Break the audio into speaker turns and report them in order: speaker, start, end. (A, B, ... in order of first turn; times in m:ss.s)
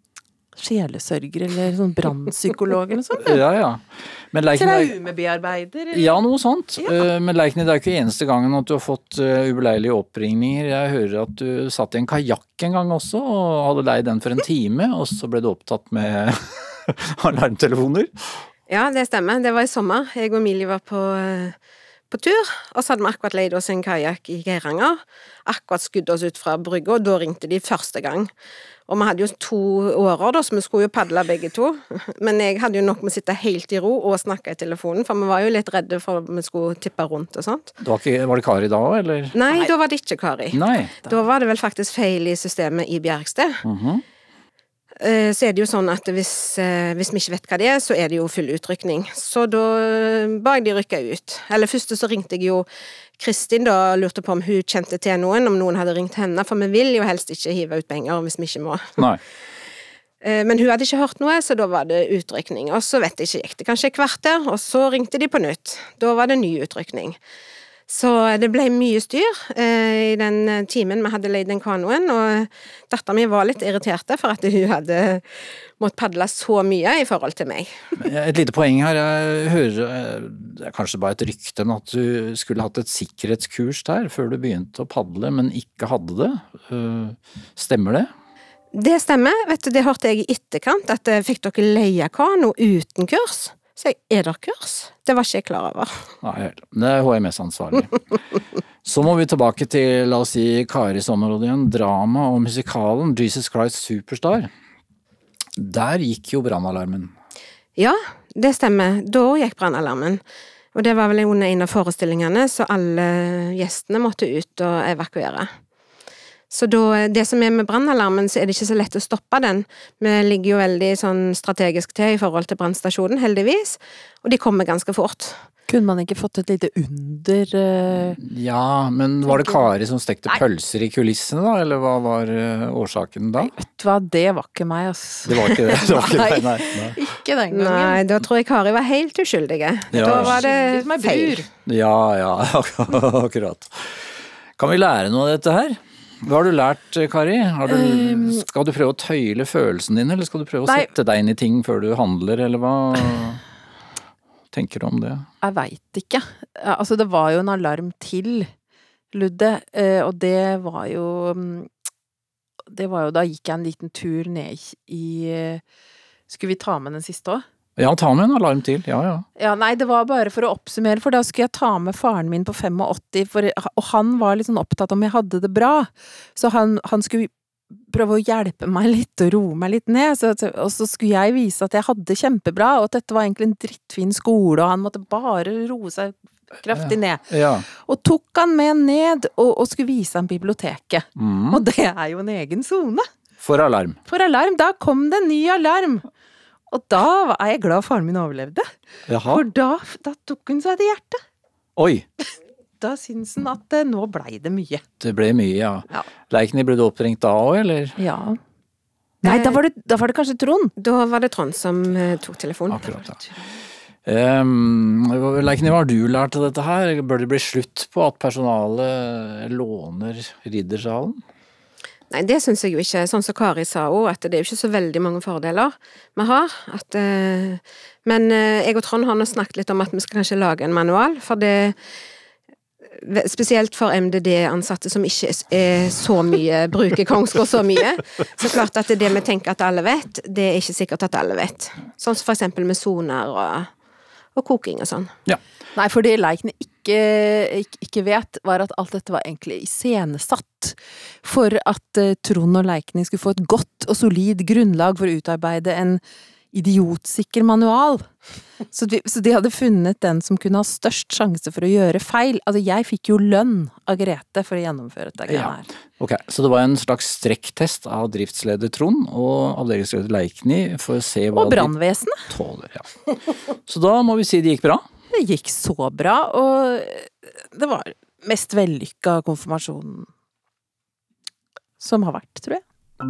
0:00.6-0:03.4 A
0:03.2-0:04.9 B
0:04.5-0:06.2 A
0:05.9-0:18.4 B
0:06.8-0:07.0 A
0:18.7-0:21.6 C
0:22.1-0:28.3 C
0:28.9-0:37.7 C
0:37.8-0:39.4 B
0:39.3-0:43.6 C
0:40.5-0:41.0 B
0:43.6-0:44.0 B
0:45.0-0:52.7 C
0:53.2-0:59.0 C
1:00.2-1:07.2 C
1:07.9-1:17.7 C
1:18.0-1:28.1 B
1:28.7-1:36.1 C
1:36.2-1:38.0 B
1:38.8-1:44.5 B
1:45.6-1:47.1 B
1:47.8-1:50.2 C
1:50.7-1:55.5 C
1:56.5-2:05.4 C
2:05.7-2:08.2 A
2:08.2-2:13.5 B
2:09.2-2:09.7 A
2:13.4-2:18.0 A
2:15.2-2:17.0 B
2:17.5-2:21.4 C
2:19.9-2:20.4 B
2:20.0-2:21.5 A
2:21.6-2:33.4 B
2:27.7-2:28.4 A
2:34.5-2:35.2 B
2:35.4-2:38.5 A
2:39.1-2:41.7 A
2:42.7-2:45.6 A
2:46.3-2:47.4 A
2:47.8-2:49.2 B
2:49.4-3:13.0 A
3:06.7-3:07.6 B
3:11.2-3:11.6 B
3:13.4-3:14.0 B
3:14.0-3:16.0 A
3:16.7-3:18.7 A
3:19.1-3:19.4 B
3:19.2-3:21.2 A
3:21.8-3:22.0 B
3:22.8-3:24.8 A
3:25.0-3:28.0 B
3:28.0-3:28.4 A
3:29.2-3:30.7 A
3:29.2-3:29.6 C
3:30.8-3:32.9 C
3:32.7-3:33.2 B
3:34.1-3:41.2 B
3:42.1-3:51.8 C
3:52.9-4:03.7 C
4:04.4-4:05.1 C
4:05.7-4:16.0 A
4:16.5-4:18.1 A
4:18.7-4:25.7 A
4:25.3-4:31.7 B
4:31.3-4:32.3 A
4:32.3-4:33.0 B
4:33.6-4:34.8 B
4:35.1-4:40.1 A
4:41.8-4:42.6 A